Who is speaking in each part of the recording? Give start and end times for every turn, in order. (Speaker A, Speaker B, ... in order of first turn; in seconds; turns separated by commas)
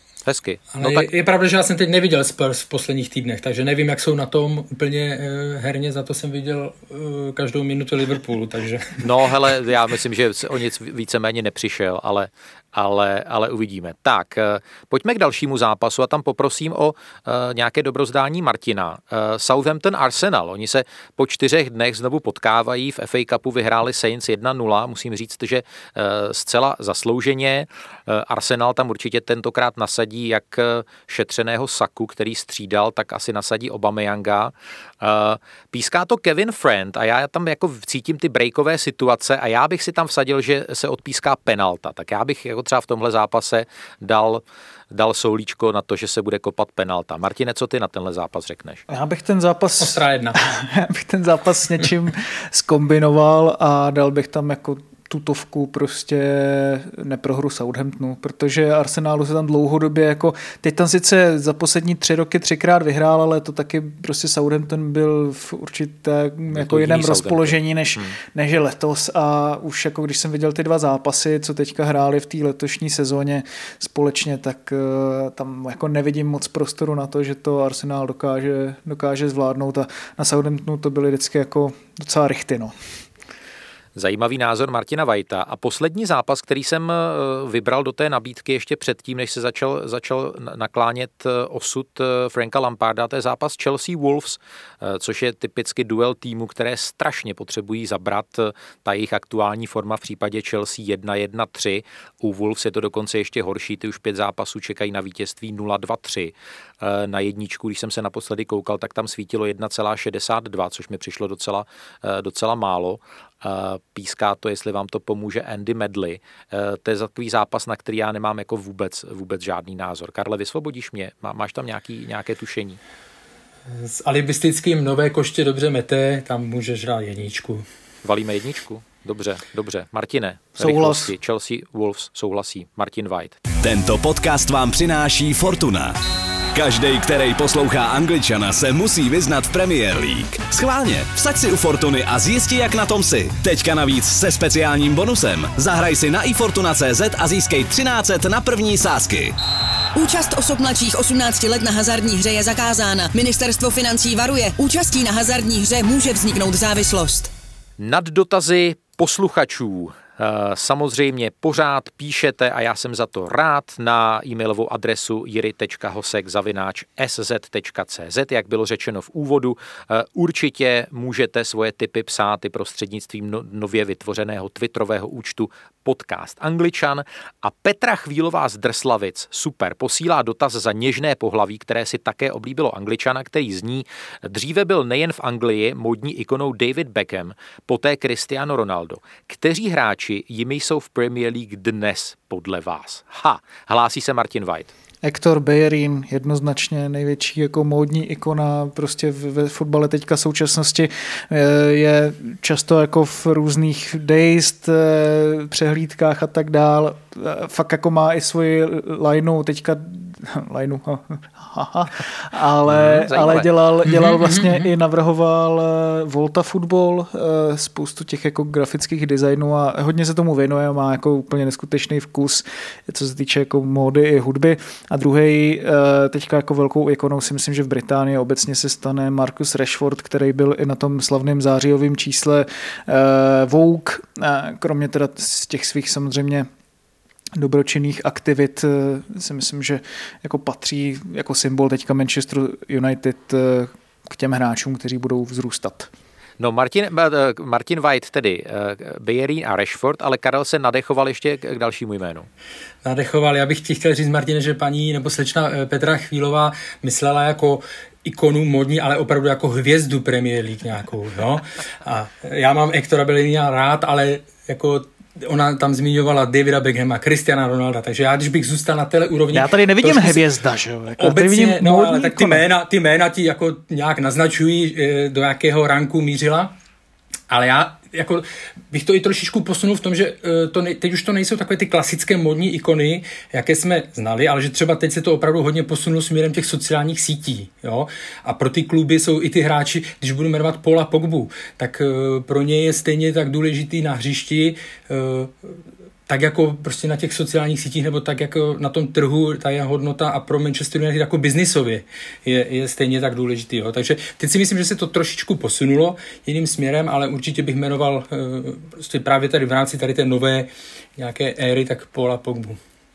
Speaker A: 0.2-1.1, Speaker B: 0.7-9.1, Speaker A: 9.0-48.8, Speaker C: 48.9-82.8, Speaker B: 49.8-50.4, Speaker A: 66.5-68.2, Speaker A: 84.0-122.8, Speaker B: 123.7-127.7, Speaker A: 128.0-133.4, Speaker C: 130.6-131.1, Speaker D: 133.6-136.0, Speaker D: 136.5-149.3, Speaker E: 149.9-157.3, Speaker A: 157.8-194.7, Speaker C: 195.0-236.5, Speaker A: 212.7-213.5, Speaker B: 213.8-214.7, Speaker C: 237.4-245.9, Speaker A: 246.4-252.3, Speaker B: 252.8-270.3, Speaker C: 269.3-272.4, Speaker B: 271.0-276.6, Speaker B: 277.3-312.6